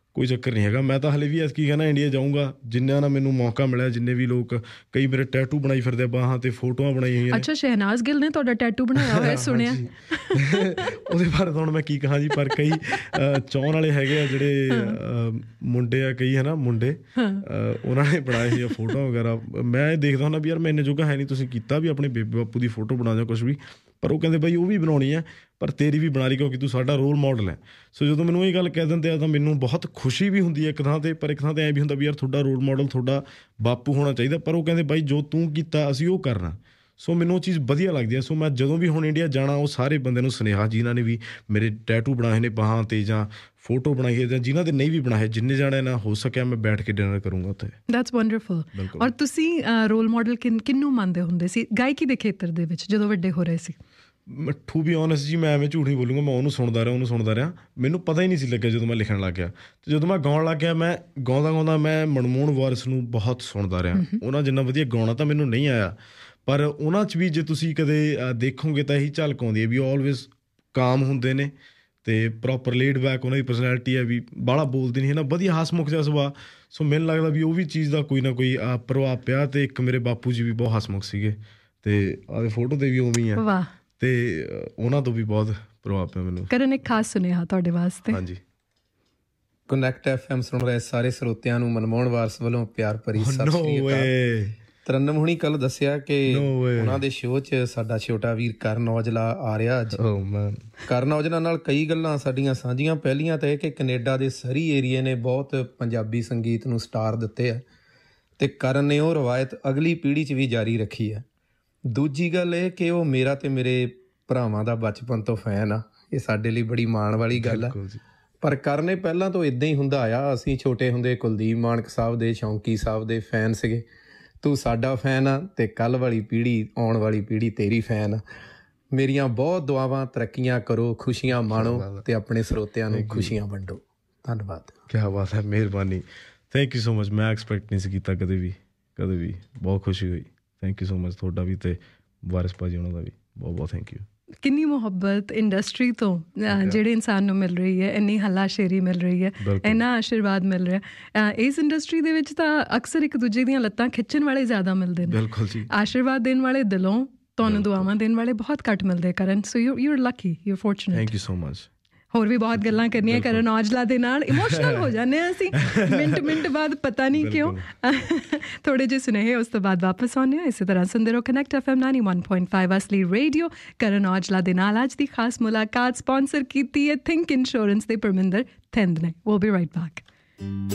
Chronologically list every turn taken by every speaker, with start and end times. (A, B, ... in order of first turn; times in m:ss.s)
0:00.1-0:07.5 A
0:07.3-0:10.8 B
0:09.0-0:47.8 A
0:14.7-0:15.0 B
0:17.2-0:17.4 B
0:18.4-0:18.8 B
0:47.9-0:53.8 B
0:48.7-0:49.1 A
0:54.3-1:11.5 A
1:03.9-1:04.2 B
1:12.0-1:23.4 A
1:23.3-1:23.7 B
1:24.0-1:26.5 A
1:26.5-1:28.2 B
1:28.1-1:28.4 A
1:29.7-1:34.1 C
1:33.2-1:34.6 A
1:34.8-1:40.0 C
1:36.3-1:37.0 A
1:39.9-1:40.7 A
1:40.9-1:47.6 C
1:48.4-1:51.2 C
1:51.9-1:57.7 C
1:57.4-1:58.0 A
1:58.4-2:03.8 C
2:04.4-2:08.2 C
2:08.9-2:14.7 C
2:11.4-2:12.0 A
2:12.9-2:13.3 A
2:14.9-2:24.0 A
2:24.4-2:41.1 B
2:26.5-2:26.8 A
2:29.4-2:29.8 A
2:35.0-2:35.7 A
2:37.4-2:37.9 A
2:40.9-2:41.7 A
2:42.1-3:00.0 B
2:42.6-2:43.4 A
2:44.3-2:44.9 A
2:45.6-2:46.4 A
2:47.1-2:47.7 A